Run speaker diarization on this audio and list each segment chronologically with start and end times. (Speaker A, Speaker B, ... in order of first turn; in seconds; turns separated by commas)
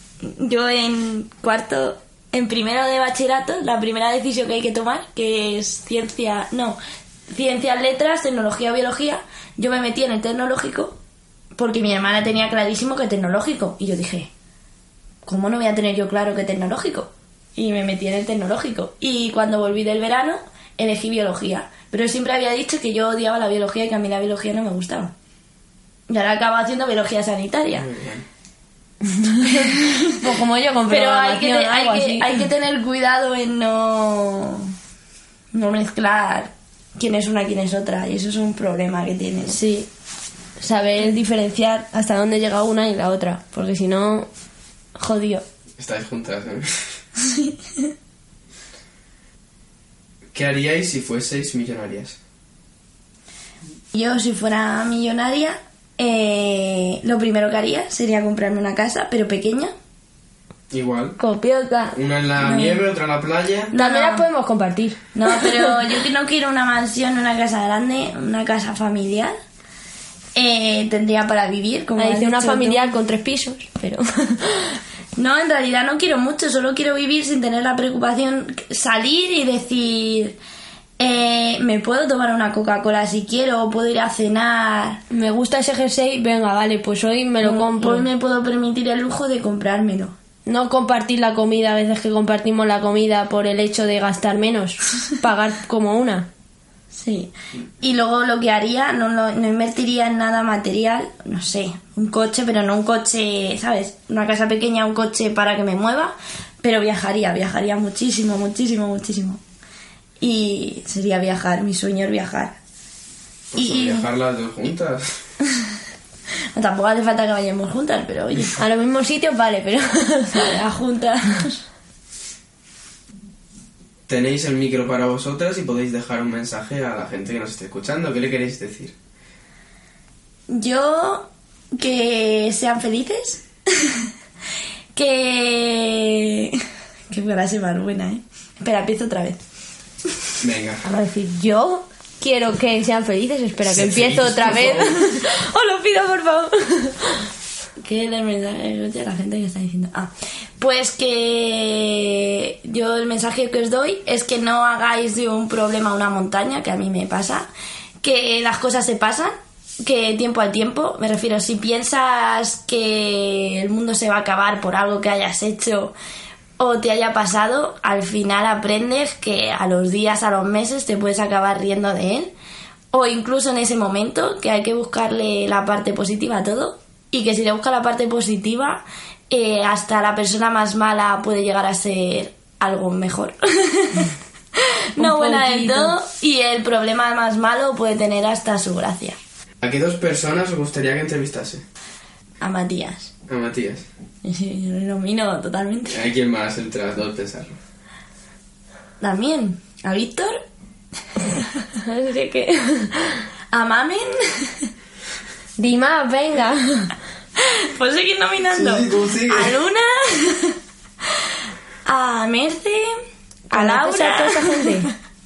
Speaker A: 0.2-11.0, Speaker A: 11.6-14.3, Speaker A: 15.2-25.1, Speaker A: 26.1-27.9, Speaker B: 27.7-28.2, Speaker C: 29.0-32.4, Speaker A: 29.4-30.3, Speaker A: 30.9-34.7, Speaker A: 35.5-39.6, Speaker C: 39.5-39.9, Speaker C: 40.6-44.3, Speaker C: 45.0-45.4, Speaker B: 45.8-46.8, Speaker A: 47.2-47.9, Speaker B: 50.3-52.2, Speaker A: 53.9-59.7, Speaker B: 60.7-61.2, Speaker C: 61.2-61.7, Speaker A: 61.7-62.8, Speaker B: 61.9-63.7, Speaker A: 63.7-64.2, Speaker C: 63.7-65.8, Speaker A: 65.1-69.3, Speaker A: 70.3-72.9, Speaker C: 72.0-74.8, Speaker A: 75.2-80.4, Speaker A: 81.0-85.0, Speaker C: 85.1-88.1, Speaker A: 87.4-90.1, Speaker C: 90.5-96.3, Speaker A: 96.9-109.4, Speaker A: 110.2-112.6, Speaker B: 113.5-115.2, Speaker A: 113.5-114.0, Speaker A: 116.5-118.6, Speaker C: 118.6-120.5, Speaker A: 120.3-121.6, Speaker B: 124.1-128.9, Speaker A: 130.5-134.0, Speaker A: 134.9-139.4, Speaker B: 140.4-140.8, Speaker C: 140.8-147.2, Speaker B: 143.6-145.0, Speaker A: 147.8-157.5, Speaker A: 158.0-165.9, Speaker A: 166.6-172.3, Speaker A: 172.9-189.2, Speaker C: 185.0-185.9, Speaker B: 189.6-191.6, Speaker A: 192.4-193.1, Speaker B: 193.3-193.8, Speaker A: 194.2-196.0, Speaker B: 195.9-197.6, Speaker A: 199.0-200.4, Speaker C: 201.8-203.2, Speaker A: 203.5-204.7, Speaker C: 205.6-206.9, Speaker A: 207.4-210.6, Speaker B: 208.5-209.6, Speaker A: 211.8-212.9, Speaker A: 213.5-214.9, Speaker C: 213.5-214.9